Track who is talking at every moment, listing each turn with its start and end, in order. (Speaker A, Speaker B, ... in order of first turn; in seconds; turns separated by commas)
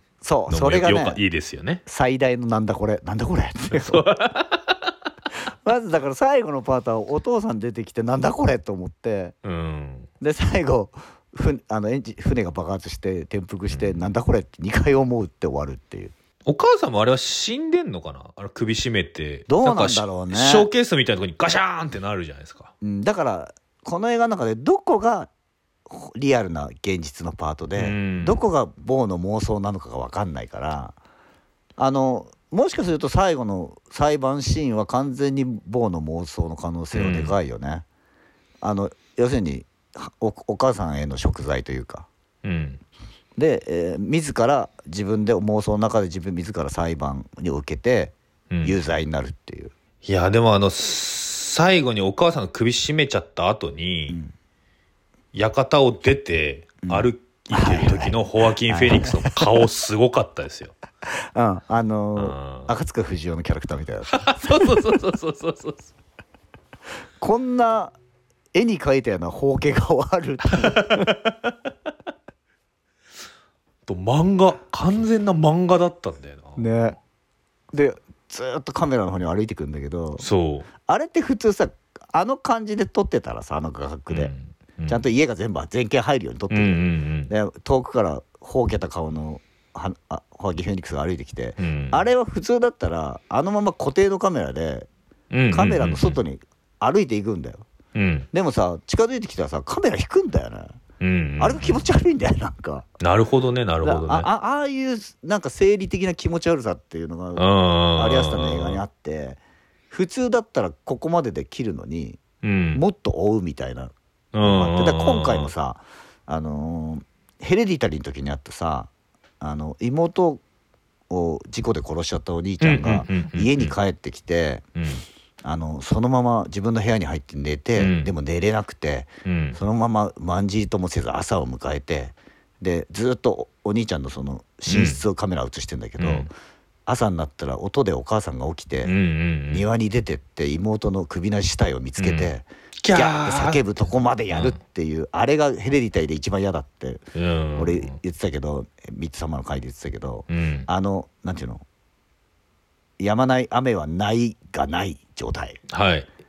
Speaker A: 0.2-1.2, Speaker B: 0.5-1.8, Speaker A: 1.9-4.1, Speaker B: 3.7-4.8, Speaker A: 5.7-9.3, Speaker B: 9.4-10.1, Speaker A: 10.2-16.1, Speaker B: 13.7-14.0, Speaker B: 16.5-22.7, Speaker A: 19.5-20.7, Speaker A: 22.8-25.3, Speaker A: 25.9-31.0, Speaker B: 27.8-28.4, Speaker A: 31.8-37.9, Speaker B: 36.9-37.4, Speaker A: 38.6-42.1, Speaker B: 42.4-42.8, Speaker A: 43.4-49.7, Speaker B: 48.5-48.8, Speaker B: 50.0-54.2, Speaker B: 55.3-60.8, Speaker A: 56.8-59.6, Speaker A: 61.1-64.9, Speaker B: 62.2-62.7, Speaker B: 64.1-65.9, Speaker A: 67.2-68.0, Speaker A: 68.5-71.2, Speaker B: 70.7-71.5, Speaker B: 73.9-76.8, Speaker A: 76.6-77.0, Speaker A: 77.7-80.2, Speaker B: 80.2-80.7, Speaker A: 80.8-84.3, Speaker B: 84.1-85.0, Speaker A: 84.9-94.9, Speaker B: 86.5-87.3, Speaker B: 91.6-92.1, Speaker B: 95.3-96.2, Speaker A: 95.5-97.7, Speaker B: 98.0-98.3, Speaker A: 98.3-100.8, Speaker B: 101.0-101.8, Speaker A: 101.4-102.9, Speaker B: 103.0-104.3, Speaker A: 103.8-107.5, Speaker B: 107.4-108.8, Speaker A: 108.0-109.4, Speaker A: 109.9-112.2, Speaker B: 112.4-112.8, Speaker A: 112.8-120.4, Speaker B: 114.3-115.5, Speaker A: 121.1-124.7, Speaker B: 122.6-123.7, Speaker B: 124.8-125.0, Speaker A: 125.4-136.3, Speaker B: 127.8-128.1, Speaker B: 129.2-129.6, Speaker B: 134.7-135.0, Speaker B: 136.0-136.3, Speaker A: 136.9-138.9, Speaker B: 138.8-139.7, Speaker A: 139.5-147.0, Speaker B: 142.0-143.7, Speaker B: 144.3-144.6, Speaker B: 147.2-148.0, Speaker A: 147.6-151.6, Speaker B: 150.3-150.7, Speaker A: 153.0-155.6, Speaker B: 155.7-156.1